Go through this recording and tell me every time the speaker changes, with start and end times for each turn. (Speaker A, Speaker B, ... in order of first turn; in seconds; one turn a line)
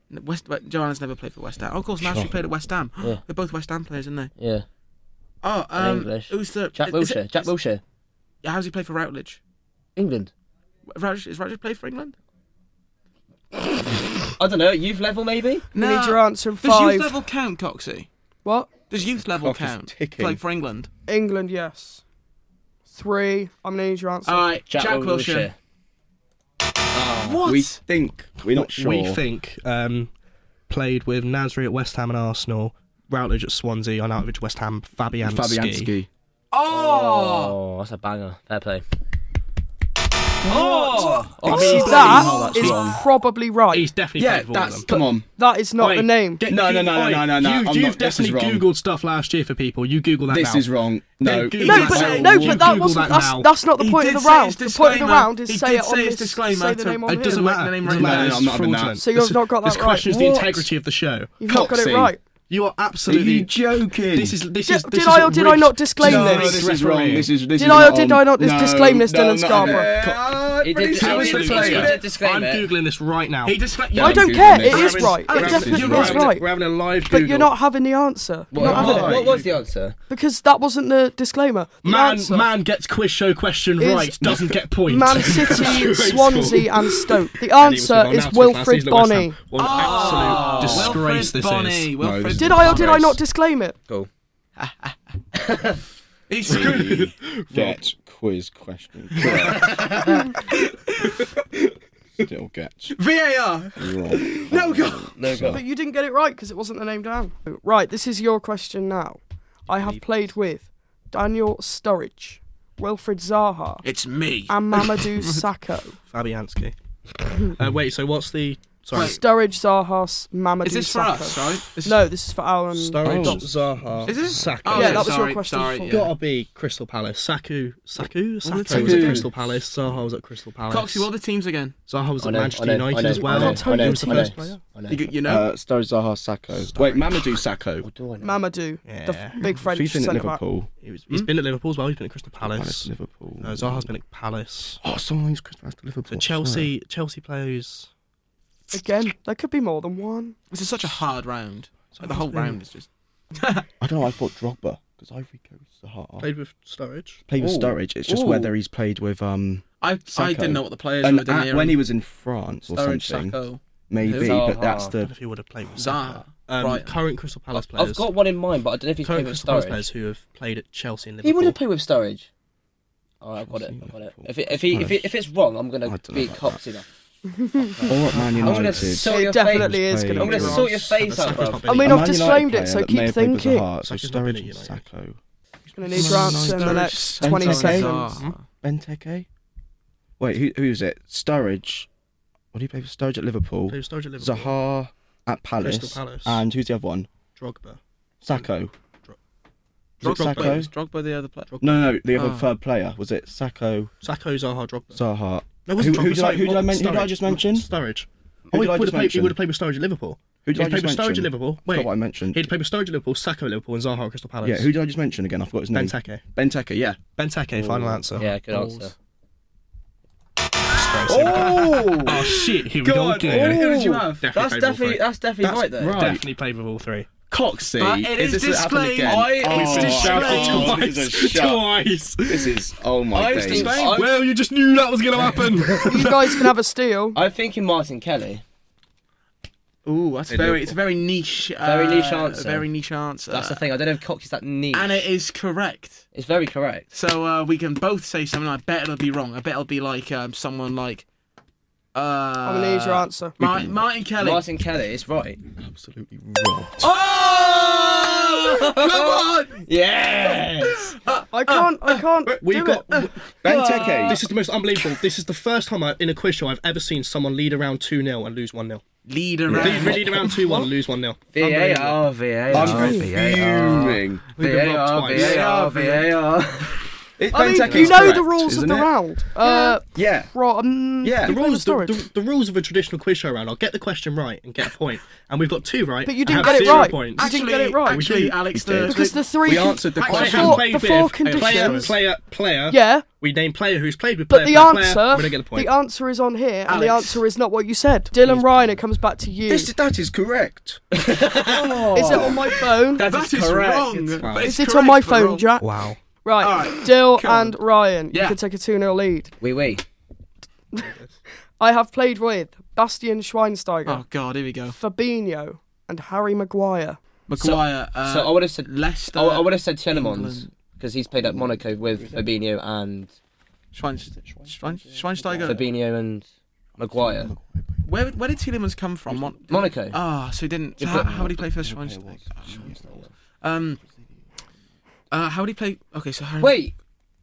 Speaker A: 0.1-4.3
Speaker B: 2.0-2.4
Speaker C: 4.4-4.7
Speaker A: 5.4-7.5
Speaker C: 5.8-7.8
Speaker A: 8.4-9.4
Speaker C: 10.0-10.3
Speaker A: 10.9-12.2
Speaker C: 14.3-15.7
Speaker A: 15.7-18.1
Speaker D: 15.8-17.2
Speaker D: 18.4-18.7
Speaker A: 18.9-20.9
Speaker B: 19.3-20.4
Speaker D: 21.1-22.0
Speaker D: 22.9-24.5
Speaker A: 24.2-25.5
Speaker C: 24.7-25.6
Speaker C: 26.9-27.4
Speaker A: 27.2-27.8
Speaker B: 27.4-29.2
Speaker E: 28.4-30.1
Speaker E: 30.7-35.9
Speaker B: 35.2-36.1
Speaker A: 36.5-37.6
Speaker C: 36.7-38.8
Speaker C: 40.4-42.5
Speaker D: 40.5-43.9
Speaker E: 41.0-42.3
Speaker B: 41.5-43.0
Speaker A: 41.6-43.0
Speaker E: 43.7-44.9
Speaker B: 44.2-45.3
Speaker D: 44.9-46.5
Speaker E: 45.8-53.5
Speaker B: 46.5-48.7
Speaker B: 50.3-52.7
Speaker A: 51.6-52.9
Speaker D: 51.6-57.5
Speaker A: 53.7-58.6
Speaker E: 57.1-61.4
Speaker B: 57.8-59.0
Speaker D: 59.0-60.1
Speaker B: 60.1-60.7
Speaker D: 61.4-62.2
Speaker B: 61.5-62.1
Speaker E: 62.5-63.5
Speaker B: 63.1-64.4
Speaker E: 64.1-67.4
Speaker D: 64.6-66.7
Speaker B: 66.0-72.0
Speaker D: 67.5-69.9
Speaker E: 69.9-70.2
Speaker C: 70.6-72.7
Speaker E: 70.9-73.8
Speaker A: 71.0-72.1
Speaker A: 73.4-76.3
Speaker B: 73.9-76.3
Speaker D: 73.9-79.3
Speaker E: 74.6-77.5
Speaker C: 78.5-80.0
Speaker B: 78.5-79.4
Speaker E: 78.6-79.5
Speaker D: 80.1-82.5
Speaker E: 81.8-91.9
Speaker D: 83.8-90.1
Speaker A: 89.6-93.2
Speaker C: 89.7-91.0
Speaker B: 92.0-93.2
Speaker D: 92.3-93.8
Speaker A: 94.6-94.9
Speaker C: 95.3-95.8
Speaker A: 96.3-97.1
Speaker B: 96.5-99.9
Speaker A: 99.2-101.4
Speaker C: 99.3-100.3
Speaker B: 102.2-103.0
Speaker A: 102.9-105.1
Speaker B: 103.8-105.6
Speaker C: 105.2-105.6
Speaker D: 105.4-113.8
Speaker E: 109.7-110.0
Speaker A: 113.8-115.4
Speaker D: 114.5-116.0
Speaker E: 116.1-116.8
Speaker E: 117.4-119.2
Speaker A: 118.9-119.2
Speaker D: 118.9-123.5
Speaker A: 120.6-122.1
Speaker E: 122.7-125.2
Speaker B: 123.0-124.8
Speaker A: 124.0-126.1
Speaker D: 124.7-126.1
Speaker E: 125.9-131.1
Speaker A: 128.4-129.3
Speaker C: 128.7-129.3
Speaker A: 130.7-131.8
Speaker E: 131.9-134.6
Speaker C: 132.2-135.1
Speaker D: 133.1-134.4
Speaker A: 134.9-135.5
Speaker B: 135.2-137.9
Speaker E: 136.7-137.1
Speaker C: 137.8-138.4
Speaker D: 138.2-140.4
Speaker E: 138.8-139.4
Speaker B: 139.6-140.7
Speaker E: 140.8-144.8
Speaker B: 142.4-143.9
Speaker B: 144.8-146.7
Speaker E: 146.1-147.9
Speaker D: 148.7-150.4
Speaker A: 150.5-153.7
Speaker E: 152.0-152.6
Speaker B: 153.8-156.3
Speaker E: 156.2-157.2
Speaker B: 157.3-165.1
Speaker C: 157.4-158.5
Speaker A: 159.8-161.8
Speaker A: 162.7-164.3
Speaker C: 164.1-164.9
Speaker E: 164.2-168.1
Speaker A: 165.8-167.0
Speaker C: 167.6-169.9
Speaker E: 169.0-171.6
Speaker C: 171.2-172.3
Speaker C: 173.2-176.9
Speaker B: 173.4-175.1
Speaker B: 175.9-176.6
Speaker D: 177.4-177.9
Speaker C: 177.6-181.7
Speaker B: 177.9-180.7
Speaker E: 178.1-178.8
Speaker D: 178.9-180.7
Speaker E: 180.3-182.4
Speaker D: 181.6-183.7
Speaker B: 181.8-185.2
Speaker E: 183.8-184.8
Speaker D: 185.8-188.2
Speaker B: 185.9-189.3
Speaker A: 185.9-188.4
Speaker B: 190.2-191.9
Speaker B: 192.5-197.1
Speaker E: 193.7-194.5
Speaker E: 195.6-196.4
Speaker E: 197.2-197.8
Speaker B: 198.2-198.7
Speaker A: 200.0-201.5
Speaker E: 200.0-200.7
Speaker B: 200.0-200.7
Speaker E: 201.5-201.8
Speaker B: 201.6-203.9
Speaker A: 202.1-202.5
Speaker E: 204.0-205.0
Speaker B: 204.9-207.7
Speaker E: 205.7-214.7
Speaker B: 208.5-209.4
Speaker B: 210.4-212.5
Speaker B: 214.4-217.0
Speaker E: 215.7-216.2
Speaker E: 217.1-218.3
Speaker B: 217.6-218.0
Speaker C: 218.1-218.9
Speaker A: 218.3-218.9
Speaker E: 220.7-227.1
Speaker B: 221.0-222.3
Speaker A: 221.3-224.2
Speaker B: 223.2-223.6
Speaker C: 223.2-226.1
Speaker B: 225.8-226.2
Speaker B: 227.3-231.7
Speaker A: 227.8-230.8
Speaker C: 229.1-230.8
Speaker E: 229.5-232.6
Speaker B: 232.2-233.9
Speaker C: 233.1-234.2
Speaker E: 233.4-236.5
Speaker A: 233.4-234.0
Speaker C: 235.4-236.0
Speaker D: 235.9-237.2
Speaker C: 237.1-238.4
Speaker A: 239.8-243.7
Speaker E: 240.3-240.7
Speaker C: 241.6-242.7
Speaker C: 243.3-245.1
Speaker A: 244.7-246.1
Speaker C: 246.1-246.9
Speaker A: 246.9-251.1
Speaker A: 251.9-254.4
Speaker D: 252.4-253.4
Speaker B: 253.4-253.8
Speaker C: 254.2-255.4
Speaker B: 255.6-256.9
Speaker C: 256.8-261.0
Speaker A: 256.8-259.6
Speaker A: 260.6-262.0
Speaker D: 261.3-263.0
Speaker E: 262.3-268.8
Speaker B: 263.4-264.2
Speaker C: 263.4-264.2
Speaker A: 269.1-270.3
Speaker B: 269.5-270.0
Speaker E: 269.5-271.9
Speaker D: 270.4-270.7
Speaker C: 271.3-276.9
Speaker B: 272.5-274.2
Speaker D: 272.6-273.1
Speaker E: 272.6-272.9
Speaker E: 274.3-275.5
Speaker A: 275.1-276.1
Speaker B: 277.2-280.3
Speaker D: 277.3-282.1
Speaker A: 277.6-277.9
Speaker E: 277.6-278.1
Speaker B: 281.0-281.4
Speaker E: 281.2-287.3
Speaker D: 286.0-292.0
Speaker A: 286.4-291.9
Speaker E: 287.8-288.4
Speaker B: 288.5-290.6
Speaker E: 290.1-295.7
Speaker D: 292.7-293.1
Speaker D: 294.3-299.7
Speaker A: 296.7-297.2
Speaker B: 299.5-302.6
Speaker C: 300.9-302.2
Speaker D: 301.9-303.1
Speaker A: 302.9-305.5
Speaker C: 303.0-304.2
Speaker E: 304.2-304.6
Speaker D: 304.4-309.3
Speaker E: 305.6-306.0
Speaker A: 306.4-307.6
Speaker A: 308.1-308.4
Speaker C: 309.4-309.8
Speaker E: 310.8-311.1
Speaker D: 311.6-314.0
Speaker A: 313.9-314.8
Speaker D: 314.7-317.0
Speaker A: 317.3-320.5
Speaker C: 317.4-323.1
Speaker B: 321.2-322.2
Speaker A: 323.7-325.6
Speaker B: 324.5-325.6
Speaker C: 325.4-326.2
Speaker B: 326.8-327.8
Speaker C: 326.8-327.3
Speaker A: 327.8-333.8
Speaker C: 329.5-330.0
Speaker C: 330.8-331.1
Speaker B: 330.8-333.0
Speaker C: 332.7-333.0
Speaker A: 335.1-336.6
Speaker C: 336.4-336.8